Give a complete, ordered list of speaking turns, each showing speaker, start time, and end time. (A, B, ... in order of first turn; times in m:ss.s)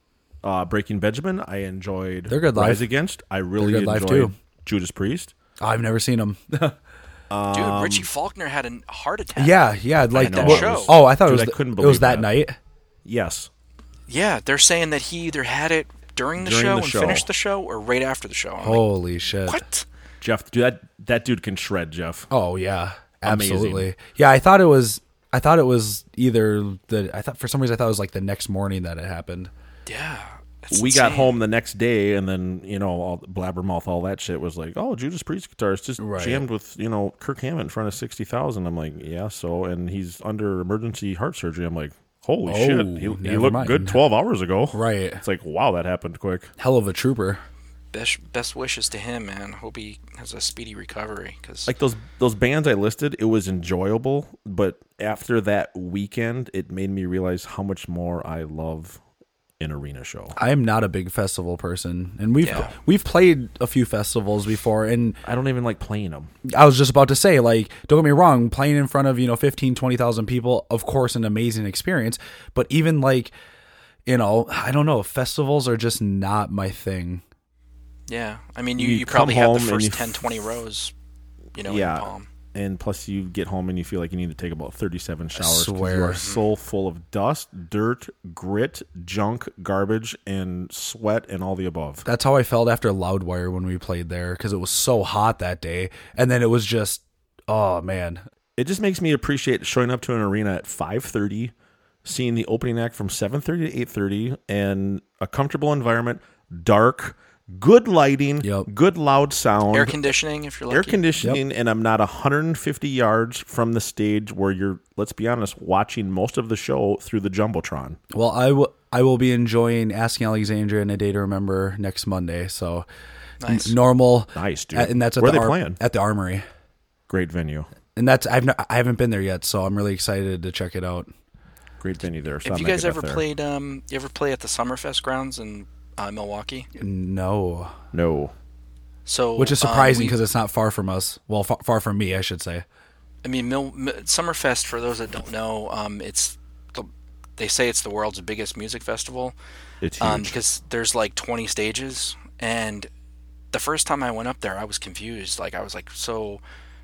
0:00.4-0:05.3 A
0:02.3-0:02.9 B
0:03.6-0:04.3 B
0:05.6-0:06.8 B
0:07.3-0:08.1 A
0:07.5-0:09.6 C
0:09.4-0:12.6 B
0:10.1-0:12.3 A
0:10.2-0:10.9 C
0:13.0-0:13.5 A
0:14.1-0:18.9 C
0:16.4-0:17.3 A
0:18.6-0:19.6 B
0:19.5-0:19.9 C
0:20.2-0:22.3 A
0:22.3-0:29.5 B
0:23.2-0:23.9 A
0:29.9-0:31.3 C
0:30.7-0:46.5 A
0:36.0-0:36.5 B
0:42.4-0:44.0 B
0:44.7-0:45.2 B
0:46.6-0:47.4 B
0:47.9-0:51.7 C
0:51.7-0:59.0 A
0:59.6-1:00.4 A
1:00.4-1:05.2 B
1:02.4-1:02.7 C
1:05.2-1:06.3 A
1:06.5-1:13.3 B
1:14.1-1:17.2 B
1:18.1-1:20.9 C
1:18.8-1:20.4 A
1:21.6-1:22.3 C
1:21.6-1:32.1 A
1:25.4-1:26.2 B
1:32.0-1:38.2 B
1:38.6-1:41.5 A
1:42.0-1:50.0 A
1:48.4-1:48.7 B
1:49.7-1:51.0 C
1:50.7-1:58.0 A
1:58.1-2:02.9 B
2:03.4-2:03.8 C
2:03.4-2:06.5 B
2:04.4-2:05.8 A
2:07.1-2:07.7 A
2:08.0-2:11.1 B
2:11.8-2:13.2 A
2:12.4-2:16.7 C
2:16.8-2:17.8 B
2:17.9-2:18.3 A
2:19.1-2:20.2 C
2:19.4-2:22.6 B
2:23.2-2:29.4 C
2:29.8-2:30.4 A
2:30.0-2:32.9 C
2:33.5-2:36.4 C